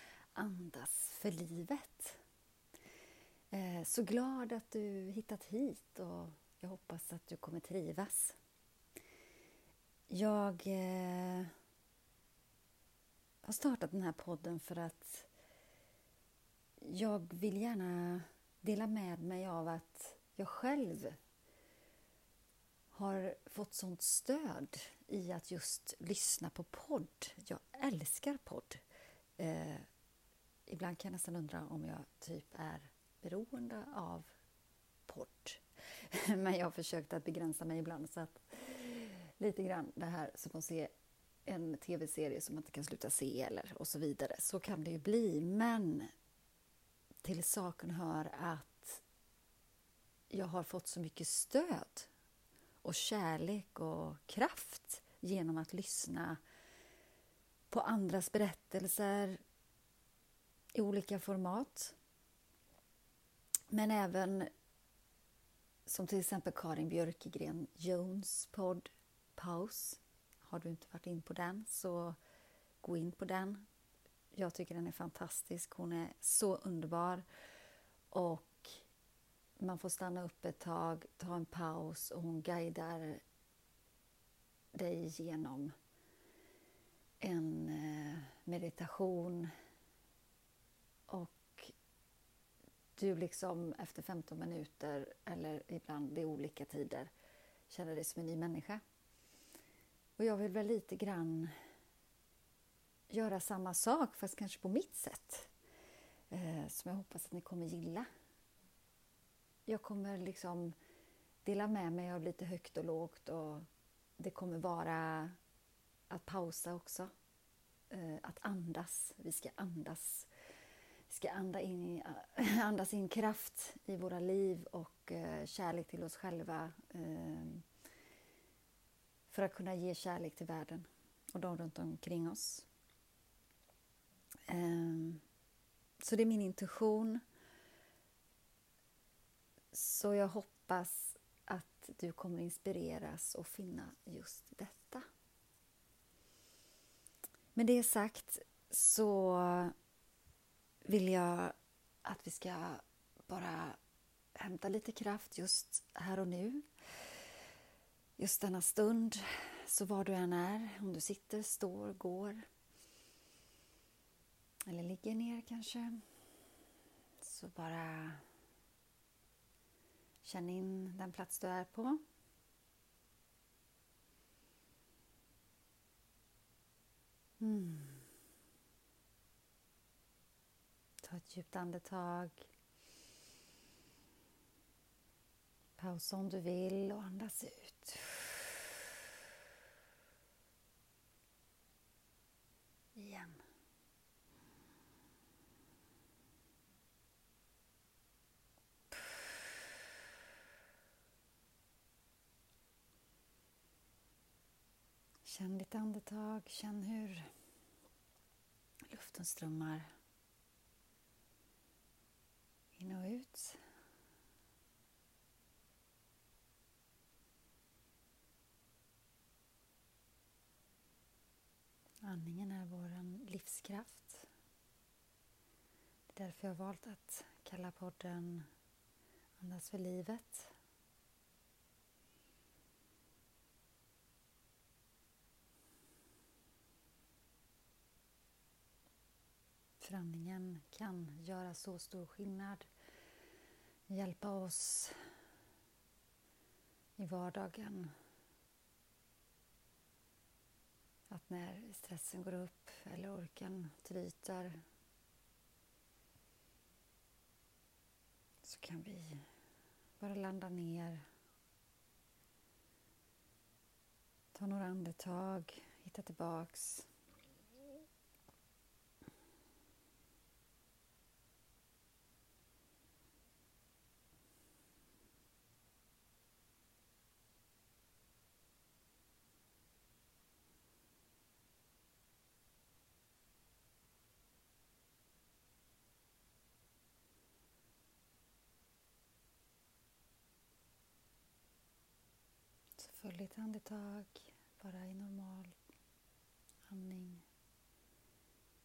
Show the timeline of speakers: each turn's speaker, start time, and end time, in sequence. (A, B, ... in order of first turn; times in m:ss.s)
0:00.4-0:02.2 A
0:03.5-0:08.4 A
0:10.1-0:11.5 A
0:13.4-0:15.3 A
0:16.8-0:21.2 A
0:22.9-0:28.8 A
0:29.4-0:29.9 A
0:30.7-0:34.3 A
0:35.1-0:40.9 A
0:41.5-0:46.1 A
0:47.2-0:49.0 A
0:50.3-0:52.1 A
0:52.8-0:56.4 A
0:57.7-0:59.4 A
1:00.7-1:02.0 A
1:03.7-1:04.5 A
1:05.9-1:12.2 A
1:12.8-1:13.6 A
1:14.3-1:17.3 A
1:18.1-1:18.9 A
1:19.6-1:23.2 A
1:24.7-1:25.7 A
1:27.2-1:29.5 A
1:31.1-1:31.7 A
1:33.0-1:37.1 A
1:37.7-1:38.8 A
1:40.2-1:41.6 A
1:43.1-1:45.5 A
1:46.3-1:48.1 A
1:49.7-1:50.8 A
1:51.4-1:53.7 A
1:54.2-1:55.4 A
1:56.1-1:57.1 A
1:57.9-2:00.3 A
2:01.1-2:07.6 A
2:09.3-2:12.7 A
2:14.5-2:15.2 A
2:16.0-2:17.2 A
2:19.7-2:25.1 A
2:27.6-2:29.7 A
2:30.8-2:33.8 A
2:34.4-2:36.7 A
2:38.2-2:42.4 A
2:44.7-2:46.0 A
2:47.2-2:48.2 A
2:50.2-2:52.0 A
2:57.4-2:58.1 A
3:01.0-3:02.5 A
3:05.8-3:08.7 A
3:13.0-3:13.4 A
3:25.2-3:27.3 A
3:28.9-3:29.9 A
3:32.8-3:33.6 A
3:42.0-3:44.3 A
3:46.1-3:48.5 A
3:49.4-3:50.5 A
3:59.8-4:02.7 A
4:03.9-4:05.0 A
4:07.0-4:07.9 A
4:11.1-4:14.6 A
4:18.4-4:19.3 A
4:20.0-4:21.0 A
4:24.3-4:26.9 A
4:52.8-4:55.6 A
4:56.7-4:57.2 A